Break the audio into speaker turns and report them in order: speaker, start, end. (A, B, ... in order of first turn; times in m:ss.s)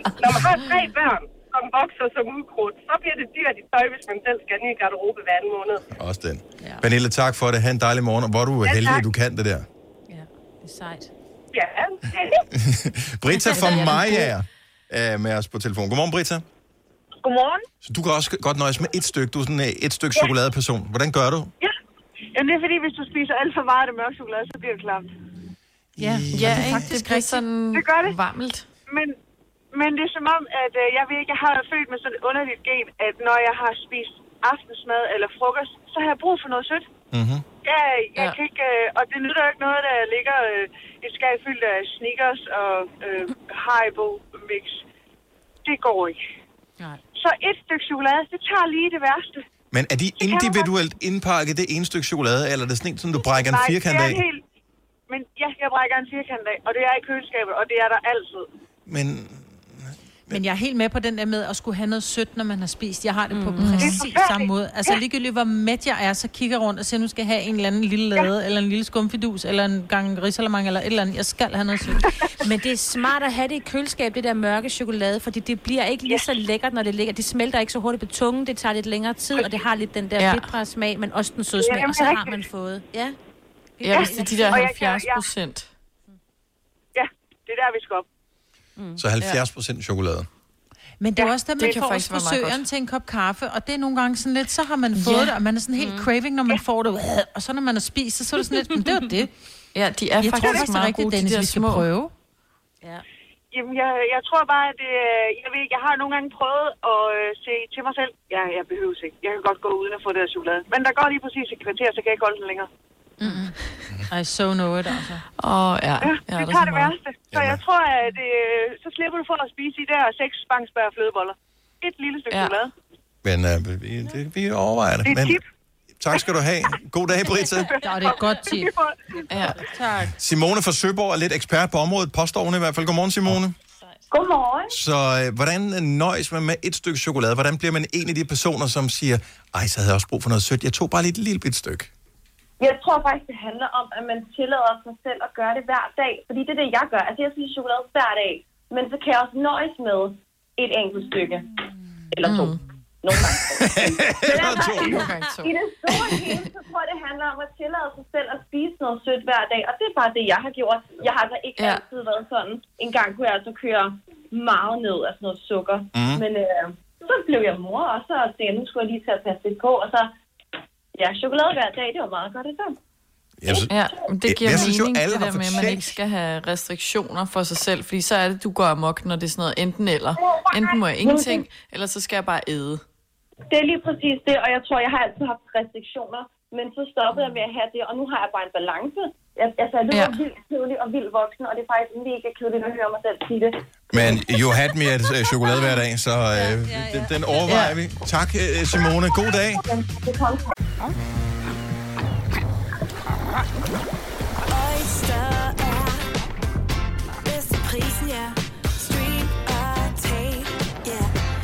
0:00.2-0:05.8 A
0:05.9-0:09.7 B
0:08.6-0:09.0 A
0:10.1-0:11.1 C
0:11.5-0:12.4 A
0:12.5-0:16.4 B
0:17.8-0:21.5 B
0:22.3-0:25.1 D
0:26.0-0:26.8 B
0:26.0-0:27.4 E
0:26.3-0:28.7 F
0:27.7-0:28.2 D
0:28.9-0:29.2 D
0:29.7-0:36.8 D
0:37.1-0:37.4 B
0:37.6-0:44.8 D
0:45.6-0:46.2 D
0:47.2-0:49.4 D
0:49.7-0:54.2 B
0:50.2-0:50.7 D
0:53.2-0:54.4 D
0:55.1-0:58.5 D
0:58.8-0:59.5 B
1:00.3-1:12.1 E
1:03.3-1:03.9 C
1:03.6-1:04.0 F
1:04.0-1:04.4 D
1:12.4-1:23.2 C
1:16.1-1:16.3 D
1:20.2-1:20.5 F
1:21.6-1:22.4 D
1:23.8-1:24.6 C
1:23.8-1:25.7 F
1:24.0-1:25.2 D
1:26.9-1:28.0 D
1:29.0-1:30.3 B
1:31.0-1:39.3 E
1:31.6-1:32.6 F
1:34.9-1:35.3 F
1:35.8-1:36.1 C
1:39.7-1:41.9 F
1:40.2-1:42.1 E
1:43.5-1:52.7 D
1:53.2-1:53.6 E
1:54.1-1:55.2 E
1:55.4-1:56.9 F
1:56.0-2:02.7 D
1:57.3-1:57.6 B
2:02.3-2:02.6 F
2:03.2-2:05.4 B
2:05.0-2:05.4 D
2:06.0-2:07.7 B
2:07.7-2:09.2 D
2:07.8-2:08.7 E
2:09.3-2:09.6 F
2:09.6-2:10.1 E
2:10.2-2:13.5 B
2:14.1-2:14.8 G
2:14.7-2:21.9 B
2:22.6-2:31.5 G
2:32.1-2:50.1 G
2:32.2-2:32.6 F
2:33.5-2:35.1 B
2:34.4-2:36.4 F
2:41.6-2:41.8 F
2:45.9-2:46.2 B
2:50.9-2:52.8 G
2:53.4-2:53.7 B
2:53.7-3:02.8 F
2:54.2-2:56.0 B
3:00.2-3:01.4 G
3:03.5-3:14.1 G
3:09.9-3:10.2 F
3:13.9-3:19.6 B
3:16.3-3:17.6 C
3:17.5-3:17.8 F
3:19.5-3:20.4 G
3:24.5-3:26.1 H
3:27.2-3:31.1 H